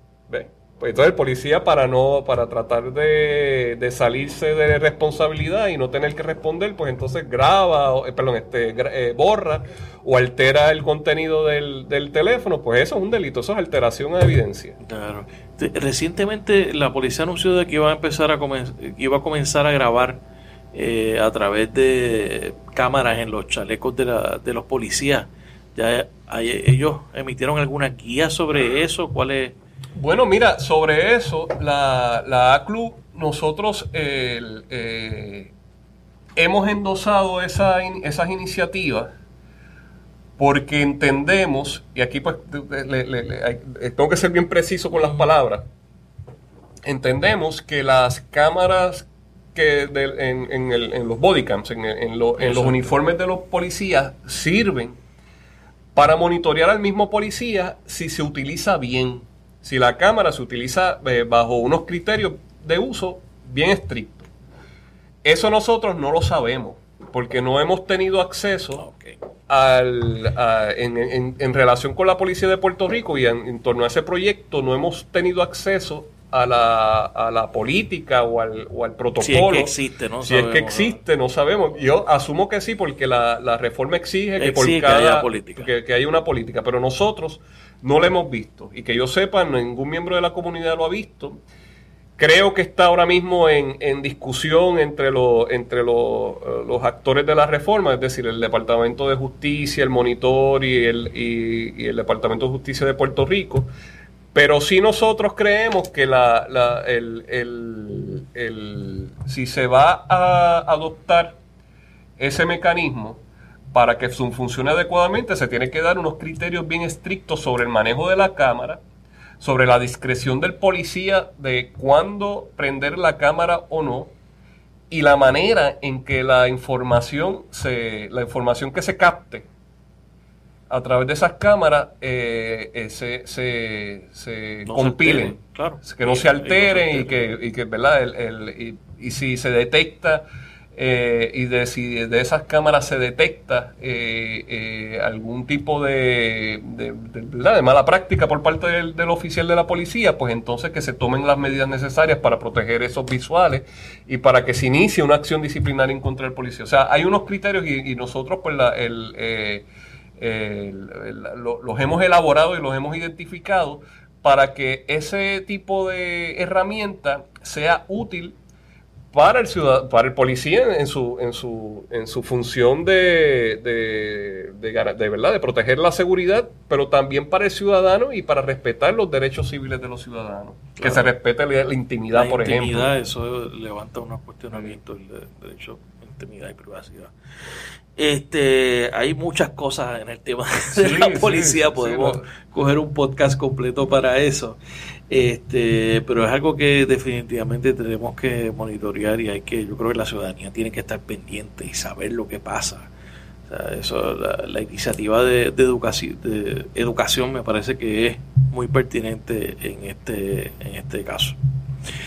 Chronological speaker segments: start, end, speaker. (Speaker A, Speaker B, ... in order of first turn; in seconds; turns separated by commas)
Speaker A: 0.3-14.8, Speaker B: 14.8-20.2, Speaker B: 20.7-29.6, Speaker A: 29.9-35.5, Speaker A: 36.4-39.1, Speaker A: 40.4-45.6, Speaker B: 44.9-45.3, Speaker A: 46.8-55.0, Speaker B: 52.4-52.9, Speaker A: 55.9-64.3, Speaker A: 65.2-68.8, Speaker B: 68.8-69.1, Speaker A: 69.5-91.4, Speaker B: 79.2-81.0, Speaker B: 84.4-85.7, Speaker A: 92.2-103.7, Speaker A: 104.3-111.4, Speaker A: 112.2-113.2, Speaker A: 113.7-118.8, Speaker A: 119.4-124.1, Speaker A: 124.9-129.5, Speaker A: 130.7-168.4, Speaker B: 134.7-137.3, Speaker A: 169.1-182.9, Speaker B: 180.8-181.1, Speaker B: 182.1-187.1, Speaker B: 187.9-194.6, Speaker A: 190.7-192.3, Speaker B: 195.1-202.9, Speaker B: 203.5-211.4